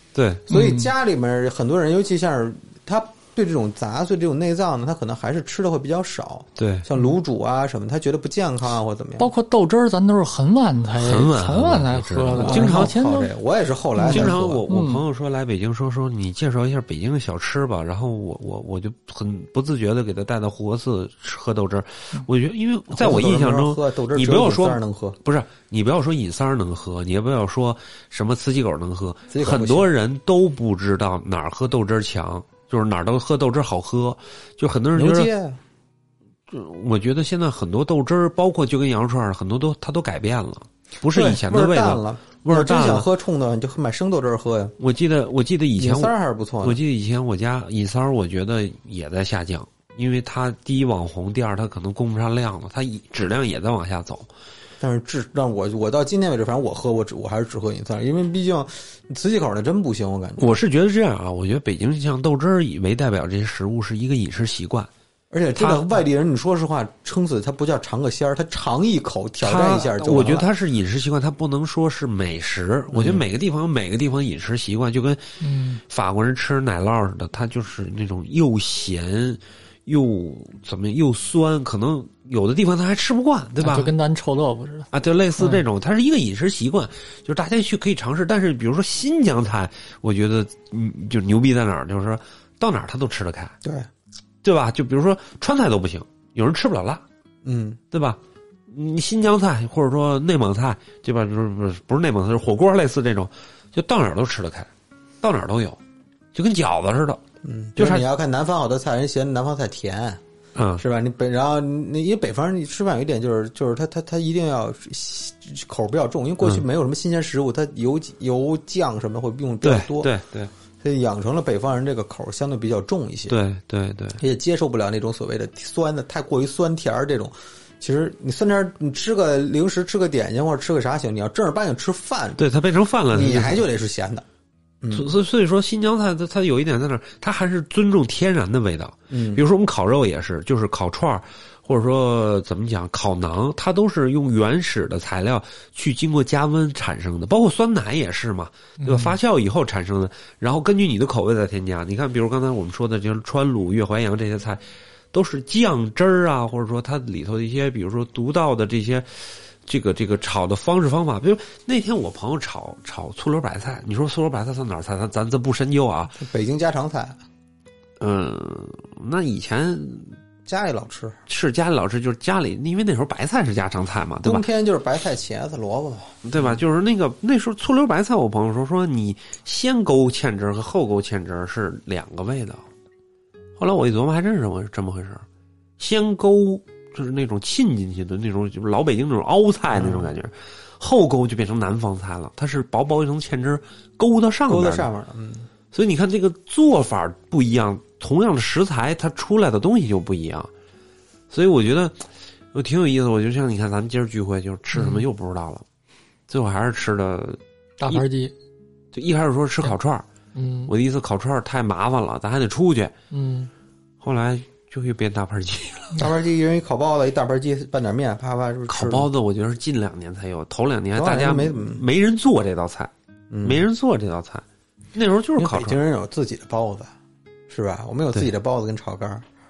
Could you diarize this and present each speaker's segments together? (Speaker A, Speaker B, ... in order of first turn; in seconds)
Speaker A: 0.1-0.4, 6.6-6.9, 11.0-12.9, 14.1-35.3, 36.5-43.1, 44.8-54.3, 60.4-64.9, 65.5-66.0, 69.4-83.9, 84.9-93.5, 94.4-97.0, 97.9-98.2, 98.7-104.7, 105.2-105.8, 106.3-107.2, 107.8-108.0, 110.5-110.8, 119.6-120.5, 123.3-124.2, 132.4-133.7, 134.9-166.2, 168.0-170.1, 171.3-174.4, 176.2-182.7, 183.6-185.2, 185.8-194.9, 195.7-200.5, 201.3-205.6, 206.3-208.0, 208.9-210.0, 210.7-212.9, 214.0-216.1, 218.7-225.8
Speaker B: 0.5-9.3, 12.3-14.6, 22.9-25.2, 29.3-29.9, 34.9-35.6, 41.1-44.7, 45.8-46.8, 54.8-60.5, 65.3-70.5, 72.9-73.2, 93.6-93.9, 97.4-97.8, 107.4-110.2, 110.8-120.1, 120.8-123.4, 124.2-132.4, 133.1-134.2, 134.8-135.1, 139.1-139.4, 166.2-167.2, 170.4-171.2, 174.2-176.6, 189.7-190.1, 194.5-195.5, 215.9-219.1, 220.9-221.8, 223.3-223.7, 225.3-226.9, 227.5-229.2
Speaker C: 0.5-0.9, 9.2-13.3, 13.9-15.0, 75.4-75.8, 83.6-85.6, 148.8-149.2, 204.7-205.0, 207.8-208.3, 210.3-210.7, 213.1-213.5